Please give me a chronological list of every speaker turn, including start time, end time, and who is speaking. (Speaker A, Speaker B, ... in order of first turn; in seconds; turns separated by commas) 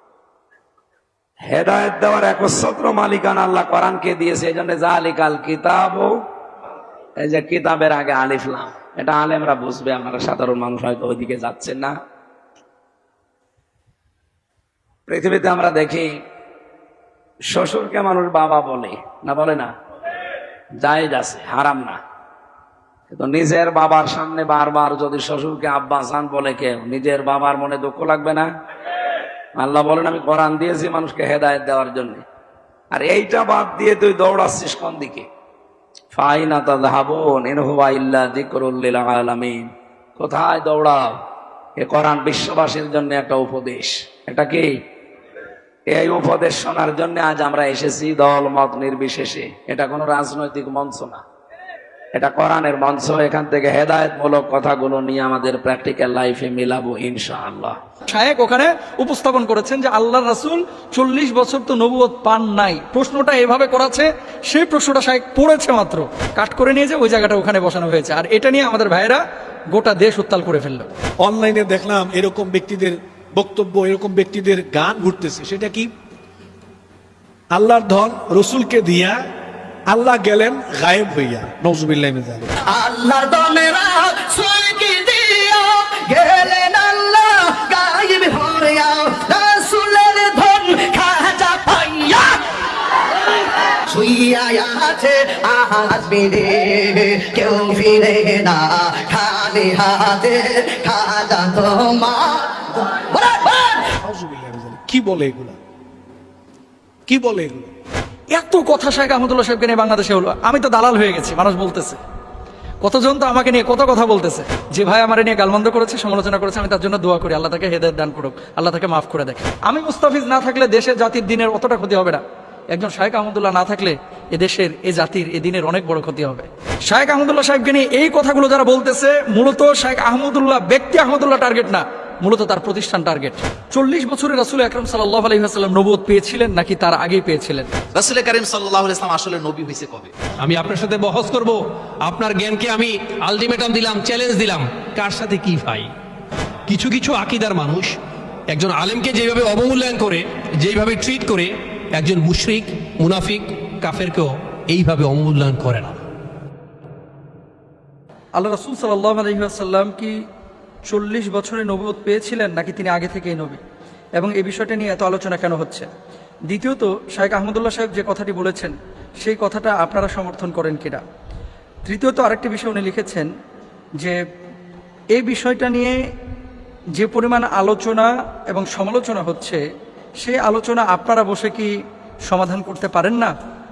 Speaker A: 1.5-6.2, Speaker A: 7.2-11.9, Speaker A: 15.1-16.2, Speaker A: 17.5-19.7, Speaker A: 20.8-22.0, Speaker A: 23.1-28.5, Speaker A: 29.6-32.2, Speaker A: 32.9-35.3, Speaker A: 36.1-41.2, Speaker A: 41.8-44.8, Speaker A: 45.9-51.2, Speaker A: 52.1-57.8, Speaker B: 58.1-70.9, Speaker C: 71.2-75.9, Speaker C: 77.5-79.2, Speaker C: 79.9-82.5, Speaker D: 82.7-92.4, Speaker D: 93.9-103.9, Speaker C: 103.9-105.6, Speaker C: 107.1-107.7, Speaker B: 108.3-112.0, Speaker B: 112.8-137.7, Speaker E: 137.9-140.1, Speaker F: 140.4-145.9, Speaker F: 146.7-148.0, Speaker F: 148.5-156.0, Speaker B: 158.3-160.2, Speaker B: 160.9-163.6, Speaker B: 164.2-165.9, Speaker B: 166.5-171.0, Speaker B: 171.9-173.3, Speaker B: 175.1-176.0, Speaker B: 176.9-179.6, Speaker B: 180.2-183.3